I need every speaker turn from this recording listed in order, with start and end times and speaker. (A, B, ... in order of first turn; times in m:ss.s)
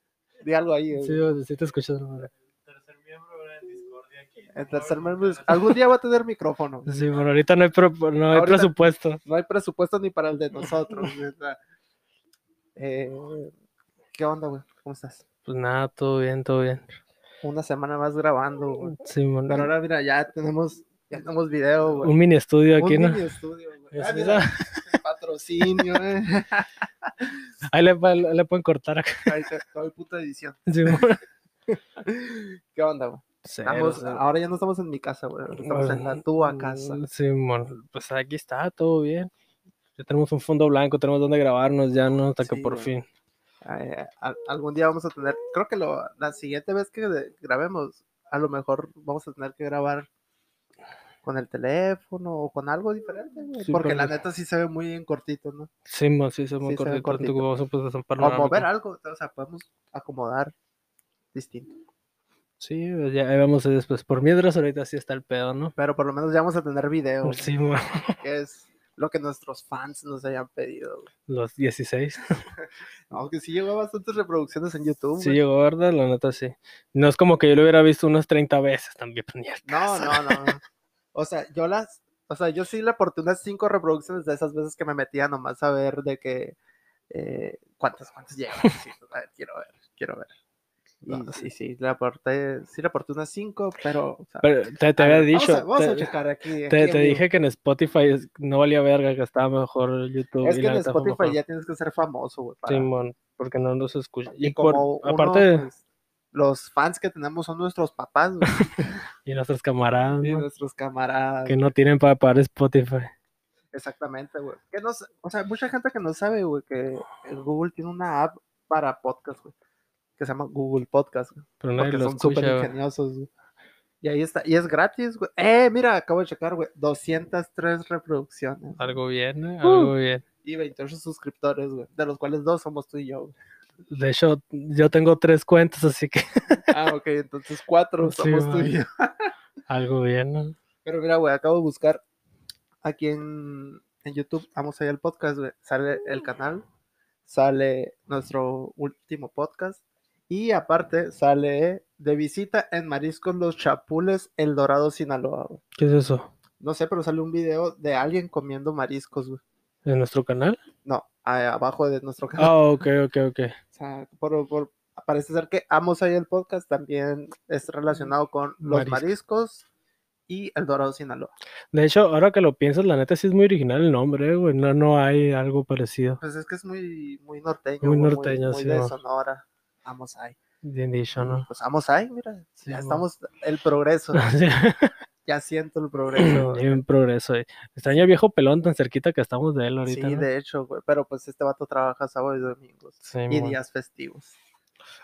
0:00.4-0:01.3 A
0:01.0-0:02.3 B
0:02.5-0:05.8 C
0:04.6-0:06.9 A
0:06.8-0:09.2 B
0:08.3-0:08.7 A
0:09.2-0:11.6 A
0:12.8-0:13.5 A
0:14.1-0:15.2 A
0:15.5-0:16.9 B
0:17.4-0:19.0 A
0:18.9-0:19.7 B
0:19.5-0:22.1 A
0:22.0-0:23.2 B
0:22.8-0:27.3 A
0:23.9-0:24.9 B
0:27.6-0:29.3 B
0:29.3-0:31.0 A
0:30.7-0:31.2 B
0:32.0-0:37.0 A
0:33.4-0:34.2 B
0:35.6-0:39.3 B
0:40.0-0:43.1 B
0:42.4-0:42.9 A
0:43.6-0:50.1 A
0:51.2-0:55.7 A
0:53.6-0:54.2 B
0:55.9-0:58.7 B
0:56.6-0:57.4 A
0:58.2-1:00.5 A
1:01.3-1:01.7 A
1:02.6-1:05.8 B
1:05.8-1:07.5 A
1:07.2-1:08.2 B
1:08.2-1:11.1 A
1:11.3-1:12.4 B
1:13.1-1:15.4 A
1:15.2-1:20.6 B
1:19.7-1:20.6 A
1:21.1-1:26.6 A
1:27.1-1:30.3 A
1:31.0-1:31.4 B
1:31.0-1:34.4 A
1:34.4-1:36.1 B
1:35.0-1:37.2 A
1:36.7-1:41.4 B
1:40.4-1:42.9 A
1:42.7-1:45.7 B
1:44.4-1:45.8 A
1:46.3-1:48.9 A
1:48.6-1:50.4 B
1:50.2-1:51.6 A
1:51.5-1:53.1 B
1:53.7-1:59.5 A
2:00.2-2:03.3 A
2:01.6-2:02.7 B
2:04.0-2:08.9 A
2:08.8-2:10.2 B
2:09.6-2:09.9 A
2:10.4-2:13.3 A
2:13.9-2:16.8 B
2:16.7-2:19.3 A
2:18.0-2:18.7 B
2:19.7-2:20.6 B
2:20.8-2:22.0 A
2:22.8-2:26.6 A
2:27.3-2:35.6 A
2:35.8-2:36.3 B
2:36.6-2:39.4 A
2:39.9-2:40.6 B
2:40.8-2:42.6 A
2:42.4-2:43.6 B
2:43.7-2:49.7 A
2:48.6-2:49.2 B
2:50.3-2:51.3 A
2:51.7-2:56.2 B
2:56.2-3:00.4 A
2:57.8-2:58.9 B
3:00.6-3:01.5 B
3:01.2-3:04.2 A
3:02.6-3:03.0 B
3:04.1-3:04.9 B
3:05.3-3:06.8 A
3:06.2-3:10.3 B
3:09.9-3:14.4 A
3:13.0-3:13.6 B